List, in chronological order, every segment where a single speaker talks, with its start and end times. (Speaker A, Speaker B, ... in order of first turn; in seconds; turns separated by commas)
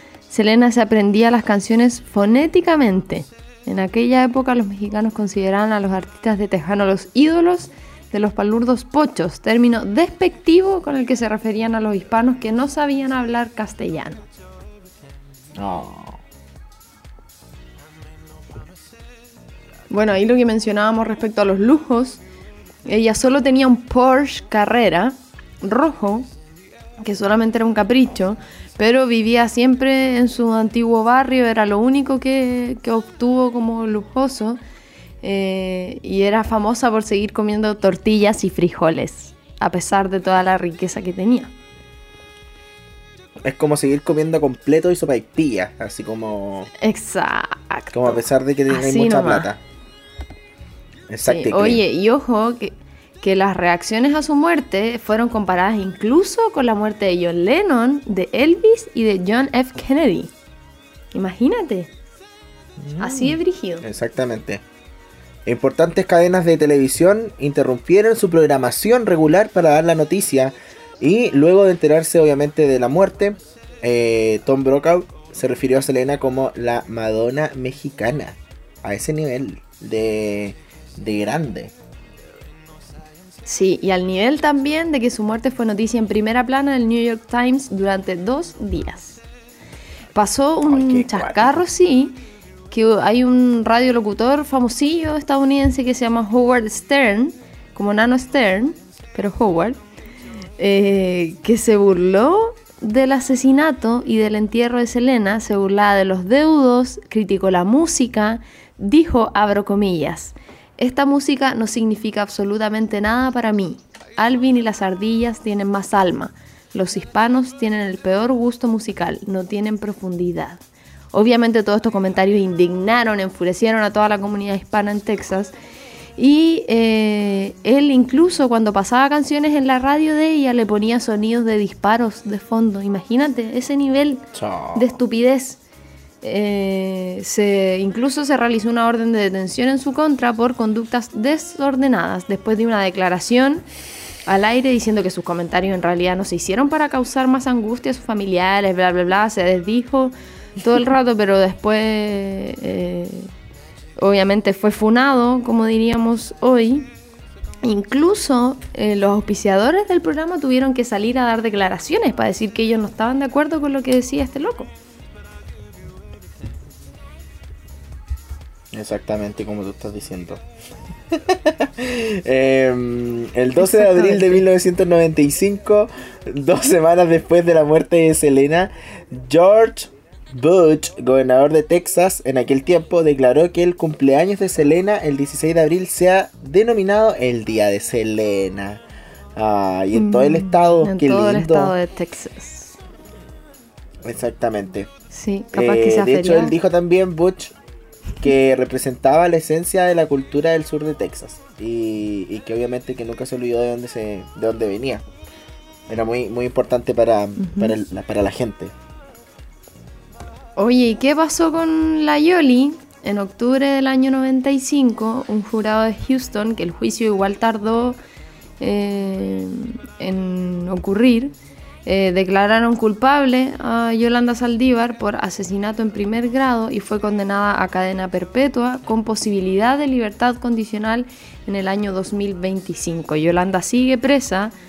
Speaker A: 0.3-14.2, Speaker B: 15.6-16.2, Speaker A: 19.9-22.2, Speaker A: 22.9-26.3, Speaker A: 27.0-34.6, Speaker A: 35.2-41.5, Speaker B: 43.4-46.7, Speaker A: 46.8-49.5, Speaker B: 47.9-49.6, Speaker B: 51.1-51.8, Speaker A: 51.2-60.3, Speaker A: 61.1-61.9, Speaker B: 62.8-64.6, Speaker A: 63.0-63.9, Speaker B: 65.5-81.7, Speaker A: 83.5-89.2, Speaker A: 90.2-92.2, Speaker B: 90.7-91.7, Speaker A: 92.7-99.8, Speaker A: 100.6-120.6, Speaker A: 121.1-125.5, Speaker A: 126.2-135.6, Speaker B: 134.3-135.0, Speaker A: 136.2-143.7, Speaker A: 144.3-153.3, Speaker A: 154.0-156.9, Speaker A: 157.6-164.7, Speaker B: 168.7-170.4, Speaker B: 171.1-188.8, Speaker A: 173.6-174.4, Speaker B: 189.4-191.8, Speaker A: 189.9-192.8, Speaker B: 194.0-194.9, Speaker A: 195.1-196.6, Speaker B: 195.5-197.5, Speaker B: 198.2-205.0, Speaker B: 205.9-208.7, Speaker A: 207.4-207.8, Speaker A: 210.6-218.0, Speaker A: 218.6-221.3, Speaker A: 221.8-234.5